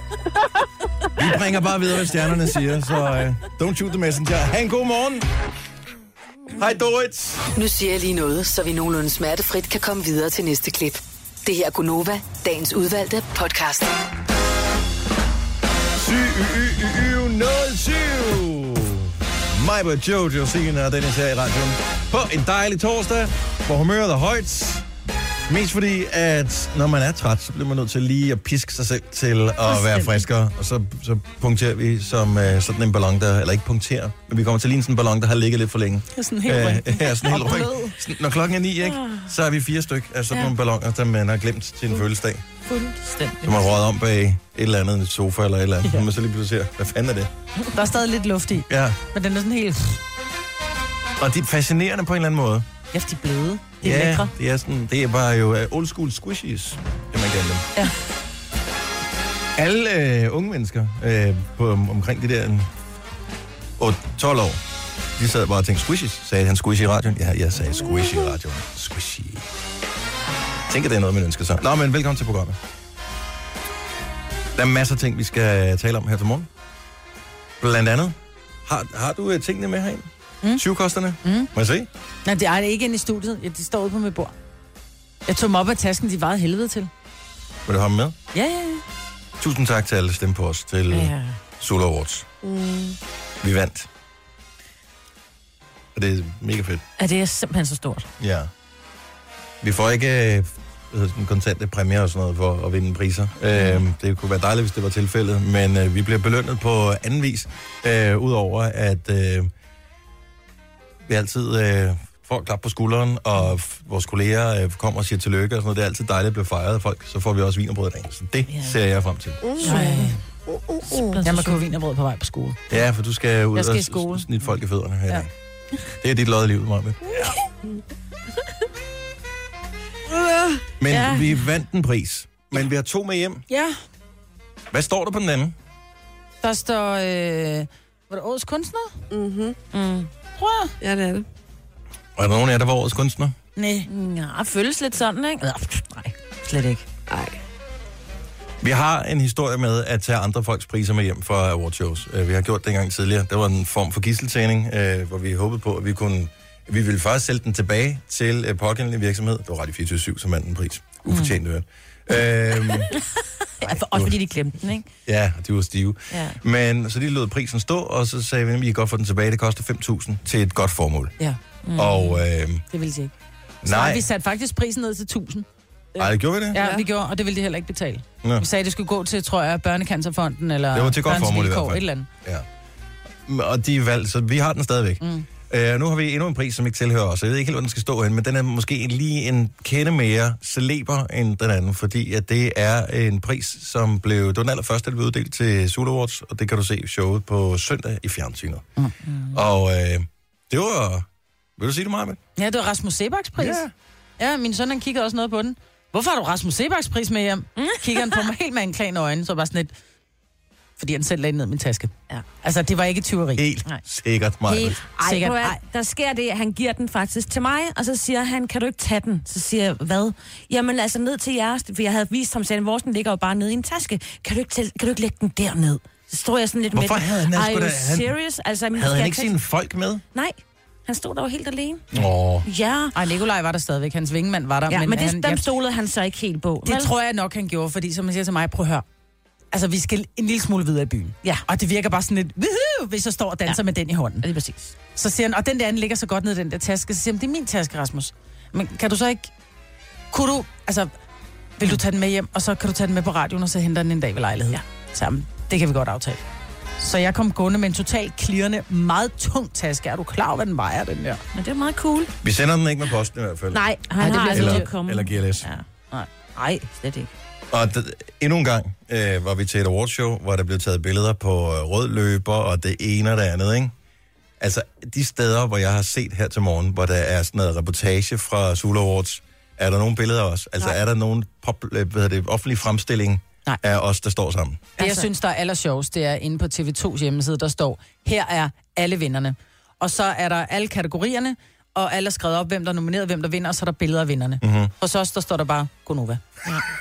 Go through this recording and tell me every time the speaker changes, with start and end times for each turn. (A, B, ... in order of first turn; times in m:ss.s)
0:01.2-0:05.3 A
0:06.5-0:07.4 A
0:07.5-0:13.9 B
0:15.9-0:24.8 A
0:25.5-0:42.4 A
0:29.7-0:30.2 C
0:36.1-0:37.9 D
0:38.8-0:39.3 C
0:42.7-0:43.8 C
0:43.4-0:47.3 A
0:47.7-0:50.0 D
0:48.7-0:49.0 A
0:51.2-0:52.6 A
0:52.9-0:54.3 D
0:53.8-0:57.7 A
0:59.6-1:02.7 A
1:03.8-1:04.6 A
1:05.2-1:09.5 A
1:10.7-1:12.6 A
1:14.5-1:16.5 A
1:17.6-1:21.9 A
1:21.2-1:21.5 D
1:22.2-1:24.3 D
1:25.3-1:26.9 D
1:27.6-1:28.2 A
1:28.3-1:28.8 D
1:29.4-1:32.2 A
1:30.9-1:31.4 C
1:32.4-1:33.0 E
1:33.4-1:33.9 A
1:35.9-1:36.8 A
1:37.0-1:38.1 C
1:38.2-1:38.5 A
1:39.6-1:49.5 A
1:51.1-1:59.5 A
1:58.5-1:58.8 C
1:59.4-1:59.9 E
1:59.6-2:00.2 C
1:59.6-2:00.2 D
2:00.5-2:01.2 E
2:00.8-2:01.6 C
2:01.2-2:02.6 D
2:02.7-2:05.3 A
2:03.5-2:04.2 D
2:06.0-2:07.2 A
2:10.1-2:10.6 E
2:10.8-2:13.4 A
2:10.9-2:11.4 C
2:13.5-2:13.7 D
2:14.7-2:15.5 A
2:16.4-2:18.9 D
2:19.1-2:19.6 E
2:19.7-2:20.1 C
2:20.4-2:20.7 D
2:20.8-2:21.2 E
2:22.2-2:23.3 A
2:23.6-2:23.9 D
2:23.9-2:26.8 C
2:27.1-2:27.4 E
2:28.6-2:42.9 A
2:41.1-2:41.3 C
2:43.6-2:44.8 C
2:43.6-2:44.1 A
2:45.0-2:51.1 A
2:46.1-2:46.4 C
2:51.6-2:52.2 C
2:51.7-2:52.6 A
2:52.7-2:53.1 D
2:53.6-2:54.0 A
2:53.6-2:55.4 D
2:56.0-2:56.6 A
2:56.5-3:02.1 D
2:56.5-2:56.8 E
3:00.7-3:02.4 A
3:03.2-3:18.7 A
3:05.0-3:05.2 D
3:19.3-3:21.1 A
3:21.6-3:22.2 A
3:22.4-3:23.6 D
3:23.4-3:23.7 A
3:24.2-3:29.7 D
3:27.6-3:28.3 C
3:30.8-3:33.4 D
3:33.4-3:34.8 A
3:34.5-3:35.6 D
3:35.0-3:49.4 C
3:46.7-3:48.1 A
3:48.7-3:50.0 A
3:50.1-3:52.9 C
3:51.9-3:52.5 A
3:52.9-3:55.4 D
3:54.7-3:56.9 C
3:56.6-3:58.8 D
3:59.5-4:04.2 D
4:04.2-4:04.7 C
4:04.9-4:09.3 D
4:10.1-4:10.9 D
4:11.6-4:16.2 D
4:16.8-4:21.2 D
4:21.3-4:22.1 C
4:22.2-4:23.6 A
4:23.5-4:25.6 C
4:24.0-4:24.7 D
4:24.3-4:25.5 A
4:26.3-4:27.1 C
4:27.5-4:33.7 A
4:34.4-4:44.7 A
4:44.8-4:45.1 C
4:44.8-4:56.2 D
4:54.4-4:54.7 A